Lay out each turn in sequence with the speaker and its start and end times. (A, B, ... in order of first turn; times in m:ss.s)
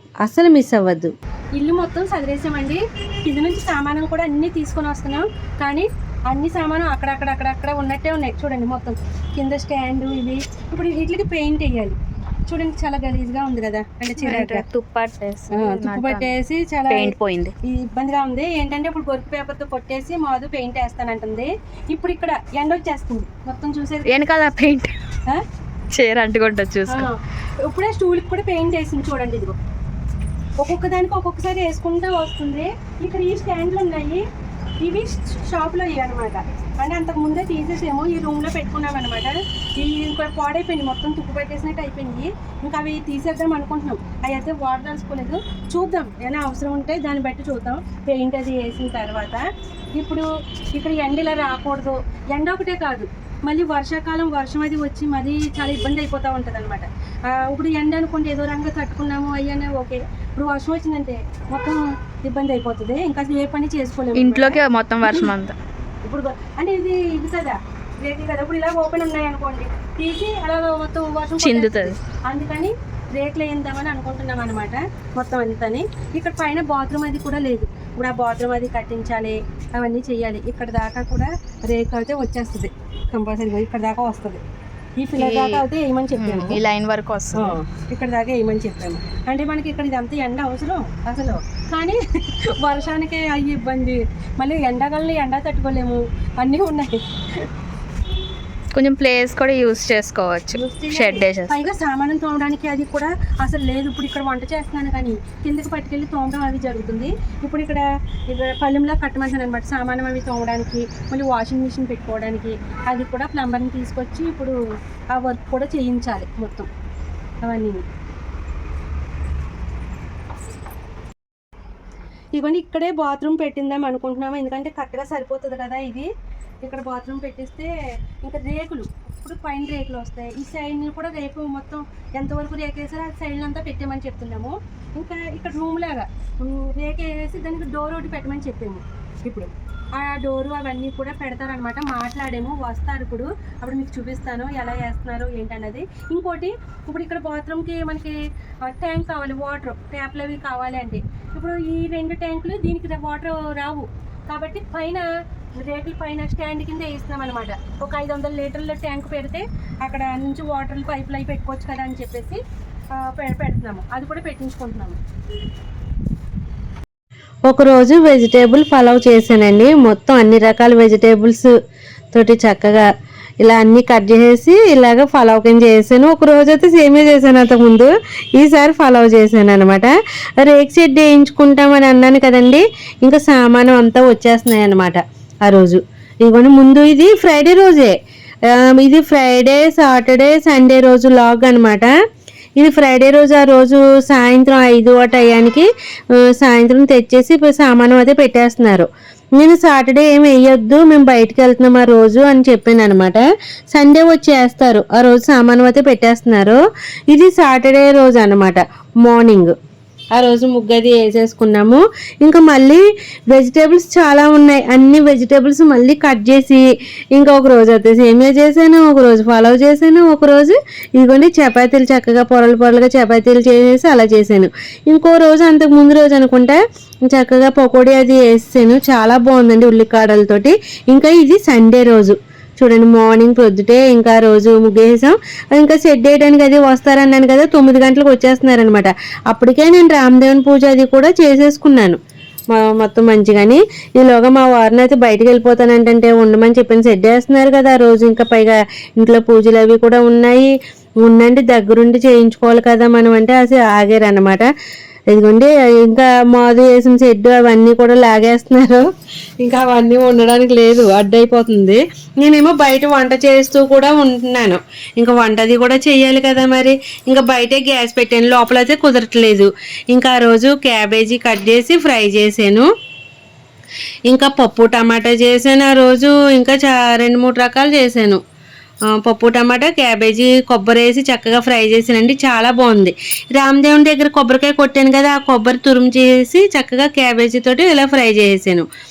0:00.2-0:01.1 A
0:01.6-0:12.0 B
0:12.5-0:14.7 B
0:14.2-0:16.3 C
0:15.5-0:17.1 B
0:16.9-0:17.5 C
0:17.6-0:24.2 B
0:24.1-0:24.9 C
0:25.9-0:27.1 C
0:26.9-0:29.6 B
0:30.6-0:34.2 B
0:34.8-0:49.4 B
0:50.0-1:05.3 B
1:04.1-1:05.6 C
1:06.0-1:24.4 B
1:11.4-1:12.0 C
1:25.0-1:26.6 B
1:25.2-1:25.6 C
1:26.2-1:27.6 C
1:27.3-1:37.0 B
1:38.8-1:41.6 C
1:40.5-1:54.6 B
1:55.1-1:56.7 B
1:57.4-1:57.8 B
2:02.4-2:06.1 B
2:06.6-2:07.7 B
2:08.2-2:35.1 B
2:35.6-2:42.4 B
2:43.0-2:45.0 B
2:47.5-2:51.5 A
2:52.1-2:52.9 A
2:53.4-3:08.0 A
3:08.5-3:11.9 A
3:12.6-3:15.7 A
3:16.3-3:18.9 A
3:19.4-3:26.6 A
3:27.1-3:29.5 A
3:30.2-3:36.6 A
3:37.2-4:02.0 A
4:02.5-4:10.5 A
4:11.0-4:14.5 A
4:15.1-4:18.9 A
4:19.4-4:32.7 A
4:34.1-4:38.2 A
4:38.9-4:48.7 A